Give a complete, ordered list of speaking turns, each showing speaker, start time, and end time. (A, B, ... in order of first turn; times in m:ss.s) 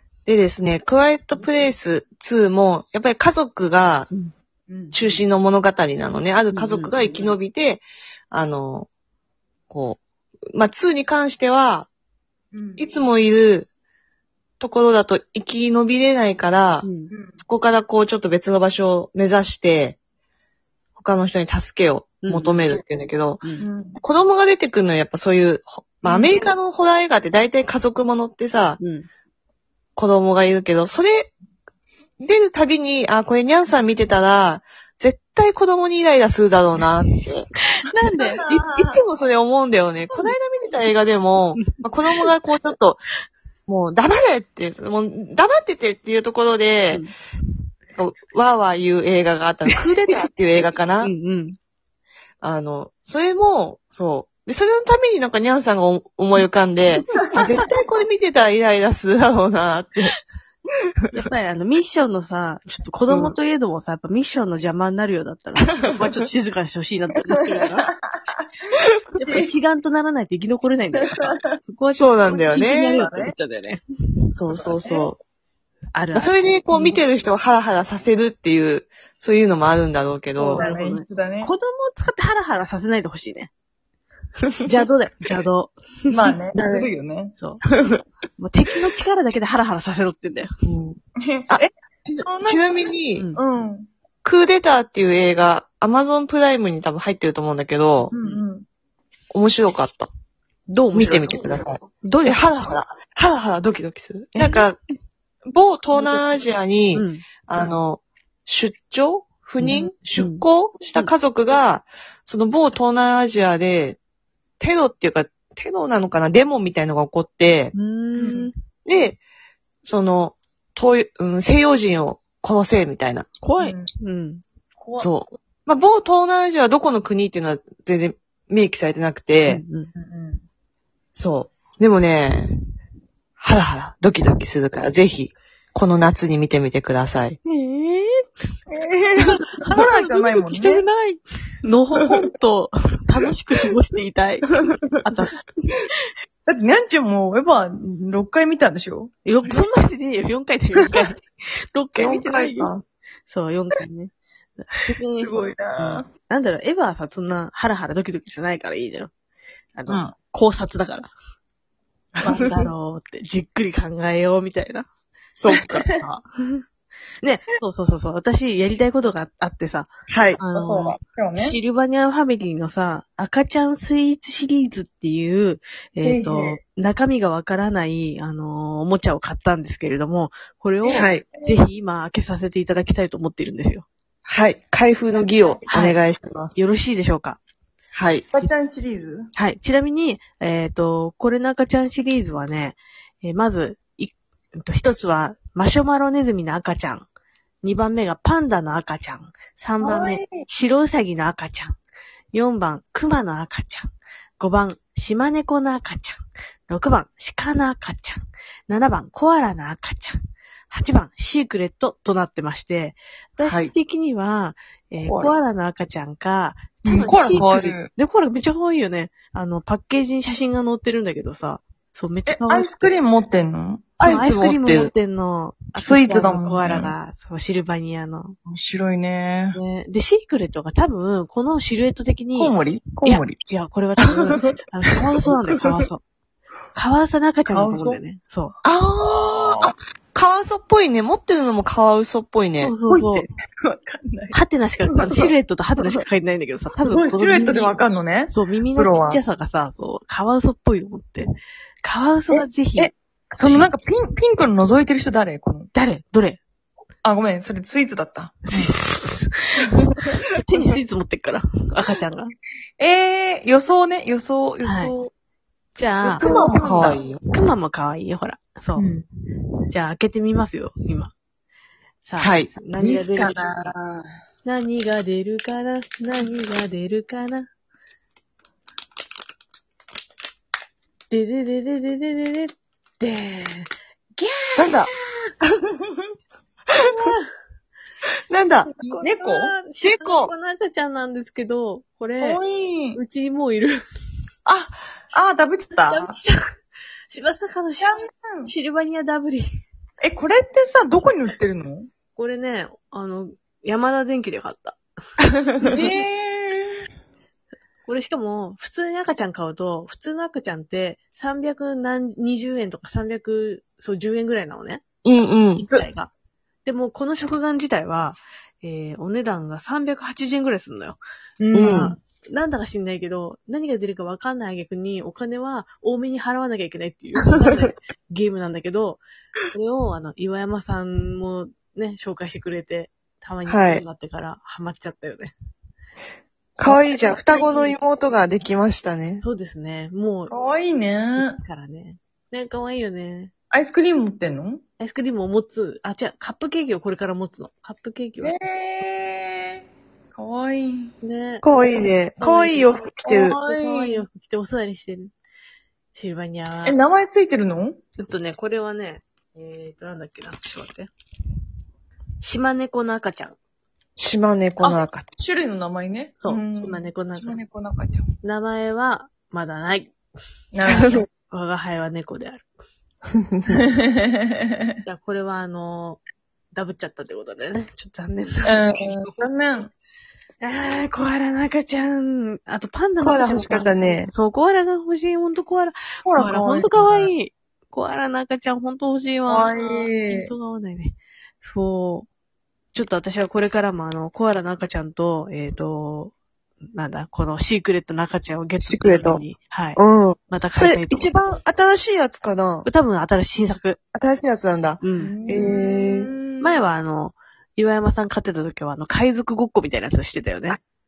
0:00.3-0:04.1 A
0:04.7-0:05.0 B
0:04.9-0:08.9 A
0:06.5-0:07.3 C
0:09.7-0:10.0 A
0:10.5-0:11.9 A
0:12.5-0:12.9 B
0:12.8-0:13.7 A
0:14.6-0:16.9 A
0:16.8-0:17.1 C
0:17.1-0:17.4 B
0:17.5-0:20.0 A
0:21.0-0:23.4 A
0:22.2-0:22.7 C
0:23.6-0:24.0 B
0:24.0-0:28.8 A
0:26.0-0:26.4 B
0:28.8-0:29.1 C
0:30.0-0:31.3 A
0:32.2-0:37.5 A
0:37.7-0:38.4 C
0:38.2-0:39.0 B
0:38.4-0:43.0 A
0:41.6-0:42.3 C
0:43.7-0:47.0 A
0:48.0-0:51.1 A
0:49.7-0:50.2 C
0:51.0-0:51.6 C
0:52.4-1:00.1 A
0:56.9-0:57.6 C
1:01.1-1:07.9 C
1:03.1-1:03.4 A
1:07.4-1:08.0 B
1:09.2-1:13.8 C
1:09.2-1:09.5 B
1:11.0-1:11.6 B
1:11.9-1:13.0 A
1:12.3-1:13.3 B
1:14.3-1:15.2 A
1:14.8-1:15.1 B
1:15.9-1:17.0 C
1:16.1-1:20.6 A
1:20.4-1:21.5 B
1:20.6-1:23.5 C
1:24.6-1:26.3 C
1:26.1-1:27.4 B
1:26.6-1:26.9 A
1:28.4-1:30.5 C
1:30.6-1:33.3 A
1:31.2-1:31.7 B
1:32.2-1:32.6 B
1:33.4-1:33.9 B
1:34.2-1:38.1 A
1:38.1-1:38.6 B
1:39.3-1:40.1 A
1:40.7-1:42.4 C
1:40.9-1:44.8 A
1:45.5-1:54.0 A
1:45.9-1:46.3 C
1:46.9-1:47.2 C
1:49.6-1:51.1 C
1:54.6-1:57.7 A
1:57.8-1:58.5 C
1:58.2-1:58.5 B
1:58.9-1:59.2 A
1:59.8-2:03.3 A
2:03.4-2:04.4 C
2:03.6-2:03.9 B
2:04.8-2:05.1 B
2:05.0-2:09.6 A
2:09.5-2:09.9 C
2:10.0-2:10.4 B
2:11.2-2:12.5 A
2:13.4-2:17.4 A
2:17.5-2:18.3 C
2:18.7-2:21.2 B
2:19.6-2:20.8 C
2:21.6-2:25.5 C
2:26.5-2:29.6 B
2:29.3-2:32.7 C
2:32.0-2:32.7 A
2:33.3-2:39.1 C
2:35.2-2:36.1 B
2:39.8-2:41.1 C
2:39.9-2:40.1 B
2:42.2-2:44.9 C
2:45.4-2:45.8 A
2:45.5-2:46.0 B
2:46.0-2:46.6 C
2:47.2-3:03.9 C
2:50.1-2:50.4 A
2:50.5-2:51.6 B
2:56.0-2:56.6 B
3:00.8-3:01.6 B
3:00.9-3:01.2 A
3:04.3-3:06.6 A
3:05.2-3:05.6 B
3:05.7-3:06.0 C
3:06.6-3:07.4 C
3:07.9-3:08.3 A
3:08.3-3:09.3 B
3:09.4-3:17.1 C
3:17.6-3:21.8 C
3:19.8-3:20.4 B
3:22.3-3:30.2 C
3:30.7-3:43.0 C
3:33.4-3:33.7 A
3:35.0-3:35.4 A
3:36.8-3:37.9 B
3:37.0-3:37.4 A
3:42.3-3:44.0 B
3:44.0-3:44.9 A
3:44.0-3:48.4 C
3:45.8-3:46.9 B
3:48.5-3:49.6 B
3:49.5-3:56.0 C
3:52.4-3:53.4 B
3:54.0-3:54.5 B
3:56.7-3:58.6 C
3:57.5-3:58.0 B
3:58.6-4:02.7 A
3:59.0-3:59.7 B
4:02.6-4:03.3 C
4:02.9-4:05.3 B
4:04.3-4:07.8 C
4:06.8-4:09.2 B
4:08.3-4:11.3 C
4:11.8-4:12.9 C
4:12.3-4:15.7 B
4:15.7-4:16.4 C
4:17.0-4:18.7 B
4:18.5-4:22.4 C
4:22.8-4:25.1 B
4:24.6-4:24.9 C
4:25.8-4:28.9 C
4:26.1-4:27.0 B
4:26.1-4:27.2 A
4:28.8-4:29.1 B
4:29.7-4:31.1 C
4:32.0-4:33.7 C
4:32.2-4:32.7 A
4:32.8-4:33.8 B
4:34.4-4:37.5 C
4:41.1-4:45.1 C
4:44.6-4:44.9 B
4:46.8-4:47.2 C
4:48.3-4:48.7 A
4:48.8-4:52.4 C
4:48.8-4:49.5 B
4:49.7-4:50.3 A
4:52.2-4:53.0 B
4:52.9-4:53.8 C
4:54.5-4:56.2 B
4:55.9-4:56.4 C
4:57.1-4:59.5 C
4:57.8-4:58.5 B
5:00.0-5:01.9 B
5:02.2-5:04.8 C
5:05.6-5:05.8 C
5:05.6-5:06.8 B
5:07.9-5:14.8 C
5:15.0-5:15.8 A
5:15.6-5:16.1 C
5:16.6-5:21.0 C
5:21.4-5:21.9 B
5:21.5-5:22.0 A
5:21.5-5:35.3 C
5:33.5-5:33.8 A
5:36.6-5:39.2 A
5:36.6-5:37.8 C
5:39.2-5:40.3 C
5:40.3-5:41.4 B
5:41.2-5:43.3 C
5:43.5-5:44.6 B
5:44.8-5:48.4 C
5:48.2-5:49.6 B
5:50.1-5:50.9 B
5:51.0-5:51.4 C
5:51.4-5:53.4 A
5:52.2-5:55.1 C
5:53.1-5:54.1 B
5:55.9-5:56.8 C
5:56.6-5:57.8 B
5:58.0-6:00.9 C
6:02.2-6:03.4 C
6:04.0-6:05.0 A
6:04.6-6:08.1 B
6:06.2-6:07.4 C
6:08.2-6:10.0 C
6:10.5-6:11.0 B
6:10.7-6:12.5 C
6:13.5-6:14.8 B
6:14.9-6:16.0 C
6:16.6-6:19.3 C
6:18.4-6:19.7 B
6:20.4-6:32.1 C
6:23.0-6:24.1 A
6:26.1-6:27.1 B
6:29.3-6:30.3 B
6:32.7-6:36.1 C
6:36.7-6:41.2 C
6:38.6-6:39.2 A
6:39.8-6:42.7 A
6:42.7-6:43.8 C
6:44.0-6:46.1 A
6:44.8-6:45.2 C
6:45.0-6:46.6 B
6:46.4-6:50.6 C